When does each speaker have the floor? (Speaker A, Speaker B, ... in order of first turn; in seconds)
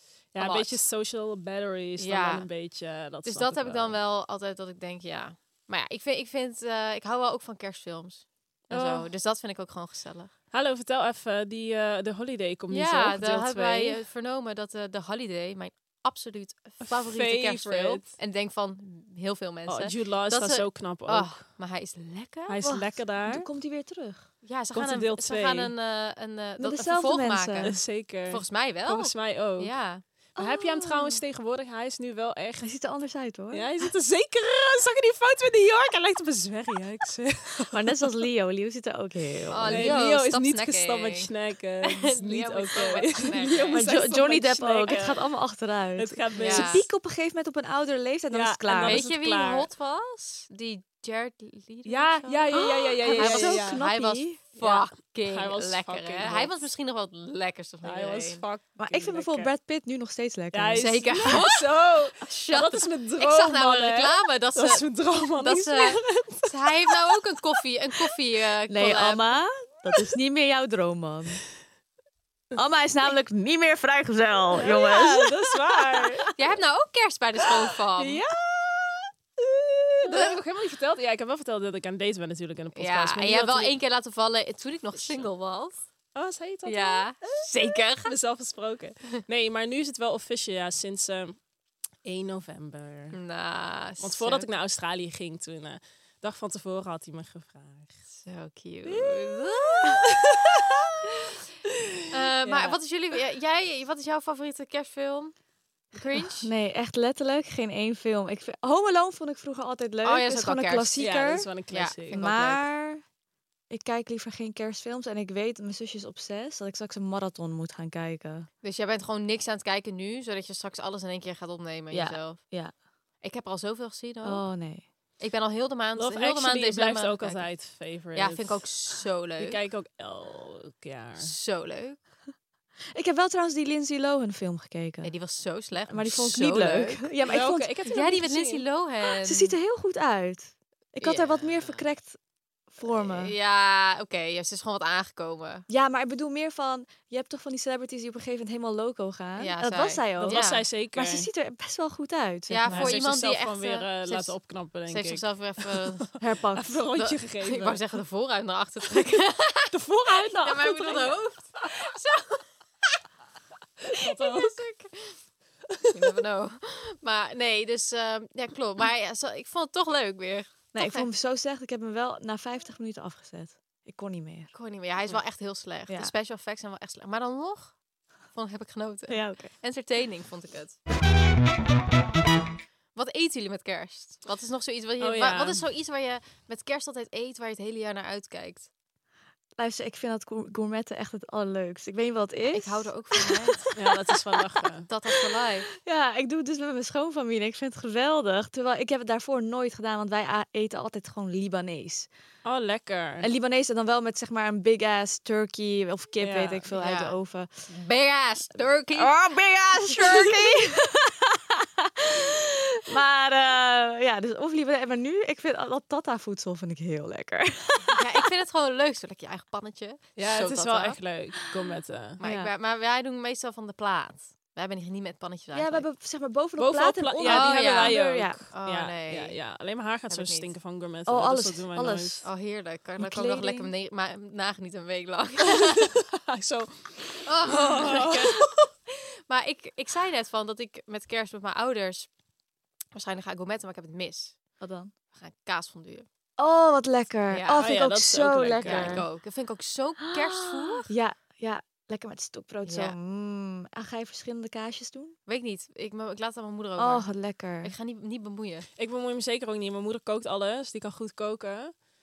Speaker A: 0.3-4.0, 8.7-9.1, 10.5-14.0, 16.8-18.1, 19.7-21.4, 22.5-23.5, 24.7-25.7, 27.6-29.7, 30.4-32.7, 33.5-37.9, 39.7-45.2, 46.0-46.8, 48.3-49.7, 51.9-53.8, 54.6-56.6, 57.8-59.5, 60.5-67.0, 74.5-76.3, 78.0-83.8, 86.2-87.5, 88.0-91.4, 92.0-93.2, 94.0-98.0, 98.9-100.6, 102.4-102.8, 111.0-112.2, 126.0-128.7, 129.4-131.3, 137.2-138.6, 150.2-151.3, 152.7-155.8, 156.5-157.8, 159.7-161.1, 163.9-164.7, 185.0-185.6, 193.8-194.9, 202.4-203.3, 206.2-206.7, 220.2-222.2, 226.6-232.2, 235.6-238.5, 247.6-249.0, 258.8-261.8
Speaker B: 0.4-0.8, 2.0-2.5, 3.2-10.3, 12.7-22.7, 24.4-30.0, 39.5-41.3, 41.8-44.1, 46.4-46.9, 48.8-58.4, 60.8-61.7, 62.2-69.3, 76.3-78.2, 82.8-85.8, 86.7-88.1, 93.1-94.5, 98.2-100.1, 102.1-105.4, 105.9-106.5, 110.0-111.0, 111.7-112.7, 118.6-122.5, 123.2-124.6, 125.2-129.6, 131.2-132.0, 135.0-137.1, 137.9-139.6, 141.0-141.8, 142.8-145.7, 149.4-150.7, 152.5-156.1, 157.0-162.5, 164.0-165.3, 165.9-171.1, 174.5-177.8, 178.3-180.8, 182.9-188.7, 192.5-193.7, 194.9-195.8, 206.7-207.2, 207.7-209.2, 209.9-210.6, 217.9-221.0, 222.2-225.9, 227.2-229.4, 230.1-230.5, 232.2-235.9, 237.3-242.1, 242.9-244.6, 245.1-246.1, 247.3-247.7, 248.6-250.9, 252.7-253.0, 255.3-258.7
Speaker C: 22.6-24.3, 26.6-27.8, 30.4-31.2, 32.6-33.7, 37.7-40.0, 43.7-49.0, 52.5-54.4, 58.8-61.4, 68.7-71.4, 72.5-76.0, 106.4-111.5, 112.1-113.0, 113.7-118.5, 121.9-122.7, 124.2-124.9, 132.9-135.1, 135.9-137.7, 139.2-143.3, 145.7-153.0, 156.2-156.9, 170.7-174.5, 175.9-176.1, 179.1-179.5, 189.6-193.6, 195.8-202.1, 203.2-207.6, 208.9-218.3, 222.2-222.5, 225.5-228.4, 231.1-232.3, 233.0-233.7, 244.6-244.9, 246.4-249.1, 250.1-255.2, 256.8-257.7